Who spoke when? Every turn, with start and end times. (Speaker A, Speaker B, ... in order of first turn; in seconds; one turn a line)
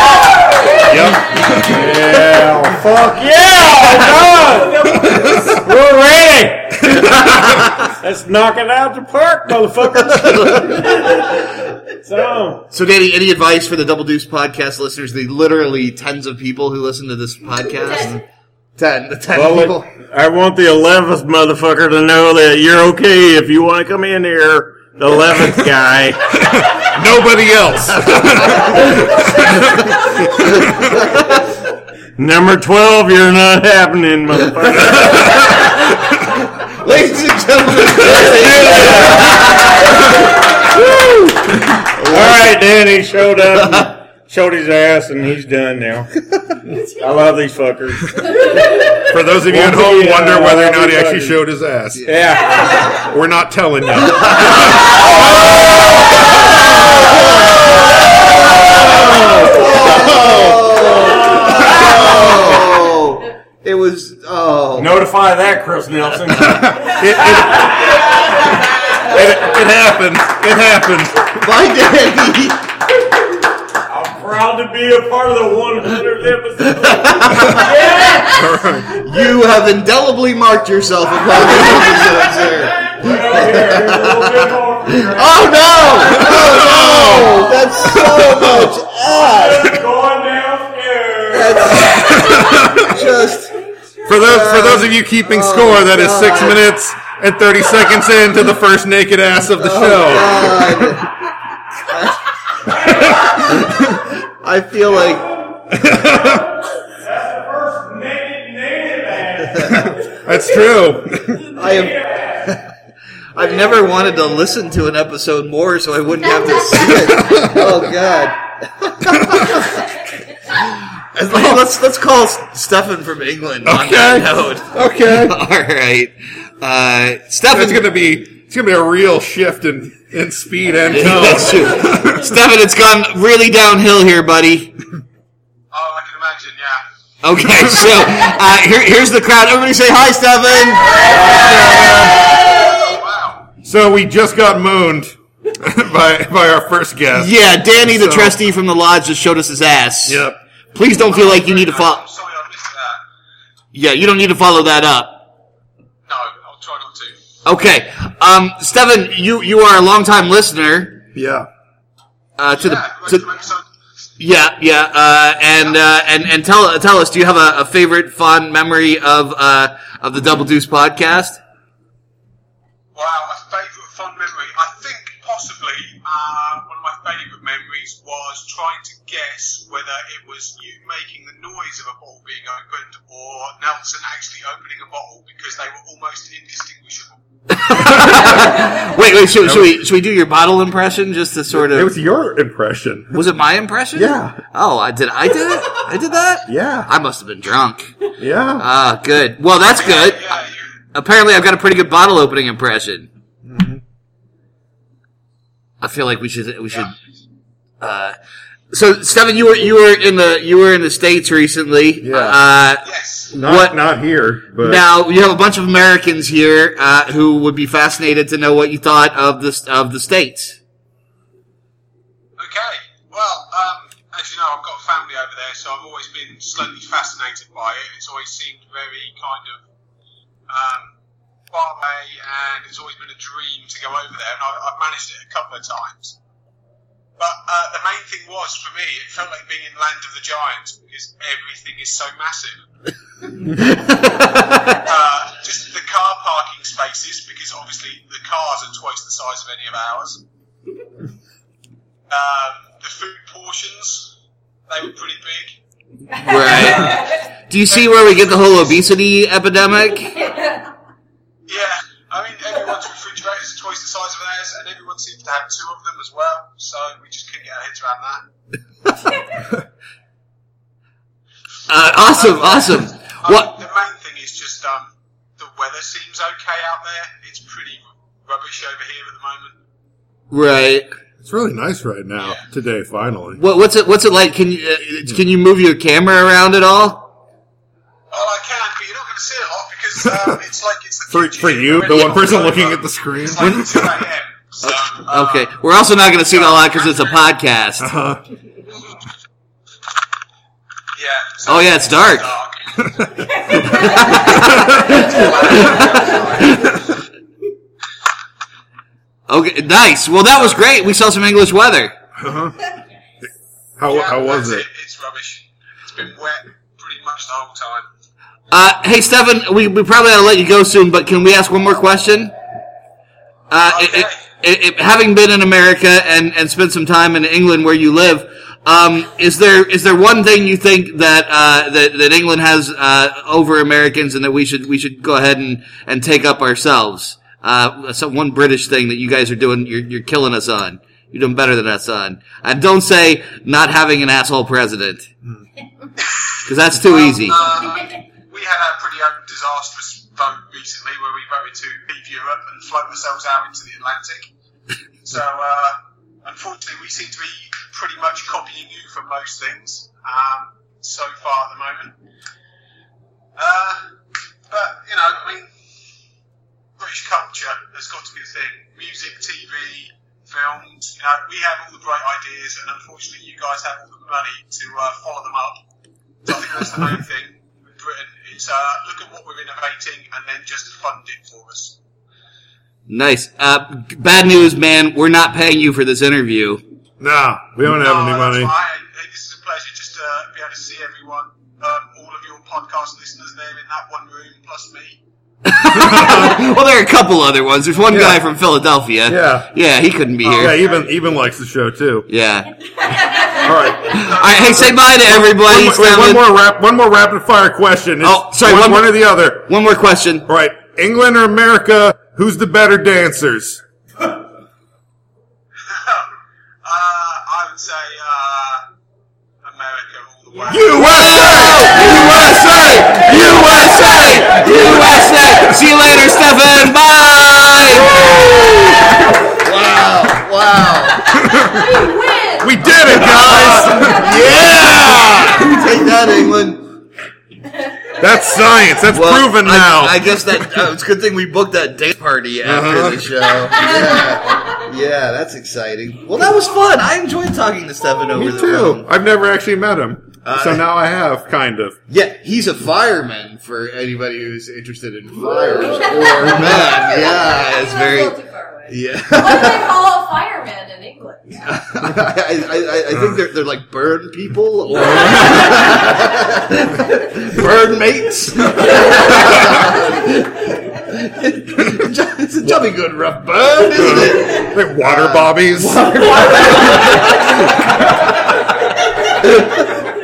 Speaker A: 0.9-2.6
Speaker B: 1.6-12.7
Speaker A: 4.8-5.6
Speaker A: 6.9-7.3
Speaker C: 7.0-7.8
Speaker C: 10.1-11.2
Speaker C: 12.7-18.2
Speaker C: 18.8-19.9
Speaker B: 19.3-26.3
Speaker A: 26.5-30.8
Speaker C: 28.4-28.8
Speaker B: 32.2-35.5
Speaker C: 35.0-35.7
Speaker C: 36.3-40.0
Speaker B: 38.0-39.7
Speaker B: 40.8-46.1
Speaker C: 41.9-42.5
Speaker C: 43.6-43.9
Speaker B: 46.8-51.4
Speaker A: 49.1-52.2
Speaker B: 52.0-53.0
Speaker A: 53.0-55.0
Speaker C: 54.2-54.7
Speaker C: 57.1-57.4
Speaker A: 59.0-60.9
Speaker C: 59.4-64.9
Speaker A: 61.7-62.4
Speaker B: 64.8-67.0
Speaker A: 66.5-67.9
Speaker B: 67.5-68.3
Speaker A: 69.0-71.5
Speaker C: 71.4-72.7
Speaker B: 73.9-78.5
Speaker C: 76.8-77.7
Speaker A: 78.2-78.9
Speaker C: 79.0-89.8
Speaker B: 81.5-85.7
Speaker A: 86.0-88.8
Speaker B: 89.0-92.2
Speaker C: 91.3-93.5
Speaker A: 92.0-92.9
Speaker A: 94.0-101.0
Speaker C: 94.1-96.6
Speaker C: 99.6-101.1
Speaker C: 101.9-102.2
Speaker C: 103.2-105.3
Speaker A: 105.7-106.5
Speaker B: 107.0-109.8
Speaker C: 109.5-109.8
Speaker A: 109.7-111.4
Speaker C: 111.5-112.7
Speaker C: 113.3-119.8
Speaker A: 116.6-117.8
Speaker A: 119.1-119.6
Speaker C: 120.5-127.9
Speaker A: 121.3-121.6
Speaker A: 123.6-125.4
Speaker A: 127.5-132.3
Speaker C: 130.9-134.7
Speaker D: 135.7-136.8
Speaker C: 137.2-141.3
Speaker A: 137.6-138.0
Speaker A: 141.0-142.3
Speaker D: 142.8-143.4
Speaker A: 143.6-148.4
Speaker C: 147.1-152.0
Speaker A: 150.1-150.4
Speaker D: 151.0-153.0
Speaker C: 153.7-155.2
Speaker D: 156.1-157.2
Speaker C: 157.4-161.0
Speaker A: 161.1-161.5
Speaker C: 162.4-163.3
Speaker D: 162.5-163.7
Speaker C: 164.2-171.4
Speaker D: 172.9-187.2
Speaker C: 187.5-191.9
Speaker A: 187.8-188.5
Speaker A: 189.4-189.8
Speaker A: 191.5-193.2
Speaker C: 193.1-197.9
Speaker A: 193.9-194.4
Speaker A: 196.5-196.9
Speaker A: 198.2-198.6
Speaker C: 198.6-200.4
Speaker D: 199.8-200.7
Speaker C: 200.9-203.1
Speaker A: 203.4-203.8
Speaker C: 205.8-206.9
Speaker C: 207.8-208.2
Speaker C: 208.7-212.8
Speaker A: 212.0-212.4
Speaker D: 212.8-213.3
Speaker A: 213.3-214.9
Speaker C: 213.4-213.8
Speaker C: 214.6-220.6
Speaker D: 222.4-229.6
Speaker D: 230.5-230.9
Speaker D: 231.5-236.2
Speaker D: 237.2-242.6
Speaker C: 243.7-244.6
Speaker D: 244.7-250.2
Speaker D: 252.1-254.1
Speaker D: 254.7-255.6
Speaker C: 256.2-260.3
Speaker D: 256.6-257.1
Speaker D: 257.7-258.8
Speaker D: 261.5-268.2
Speaker C: 271.7-273.6
Speaker D: 272.0-279.6
Speaker C: 280.3-280.9
Speaker A: 281.2-283.4
Speaker C: 283.4-287.1
Speaker D: 288.1-295.5
Speaker A: 291.1-294.1
Speaker C: 294.6-297.9
Speaker D: 296.3-297.1
Speaker A: 297.8-298.2
Speaker D: 300.9-302.9
Speaker C: 301.4-302.3
Speaker A: 303.0-305.0
Speaker D: 303.5-306.8
Speaker C: 303.6-306.7
Speaker C: 309.3-311.9
Speaker A: 312.2-312.6
Speaker A: 313.8-314.6
Speaker D: 313.9-317.9
Speaker C: 318.5-322.3
Speaker C: 323.5-345.1
Speaker D: 323.7-324.2
Speaker C: 346.4-347.4
Speaker D: 346.8-354.3
Speaker D: 355.0-361.9
Speaker D: 363.4-363.9
Speaker D: 364.5-365.5
Speaker D: 366.8-375.6
Speaker D: 376.2-381.8
Speaker C: 382.9-386.6
Speaker A: 387.0-388.5
Speaker D: 387.7-395.0
Speaker C: 395.4-400.7
Speaker A: 395.7-396.4
Speaker A: 397.9-398.2
Speaker A: 399.1-399.5
Speaker A: 400.2-402.1
Speaker C: 402.1-402.5
Speaker A: 403.4-404.0
Speaker C: 403.5-406.2
Speaker D: 403.9-404.8
Speaker A: 405.0-409.5
Speaker C: 408.0-410.3
Speaker A: 410.3-413.6
Speaker D: 415.6-416.1
Speaker D: 416.6-418.6
Speaker D: 419.4-420.9
Speaker A: 420.5-424.1
Speaker C: 420.5-428.0
Speaker A: 427.8-428.8
Speaker C: 429.3-431.2
Speaker A: 431.1-431.8
Speaker E: 431.4-432.5
Speaker A: 432.4-435.6
Speaker C: 432.8-436.7
Speaker E: 433.1-434.0
Speaker A: 438.0-440.2
Speaker C: 438.9-448.9
Speaker A: 442.4-443.3
Speaker A: 448.1-451.8
Speaker C: 450.2-450.6
Speaker C: 451.9-458.2
Speaker E: 455.8-461.4
Speaker C: 458.7-459.7
Speaker C: 461.4-477.3
Speaker A: 464.8-465.8
Speaker A: 469.1-469.6
Speaker A: 473.7-476.8
Speaker C: 479.2-479.6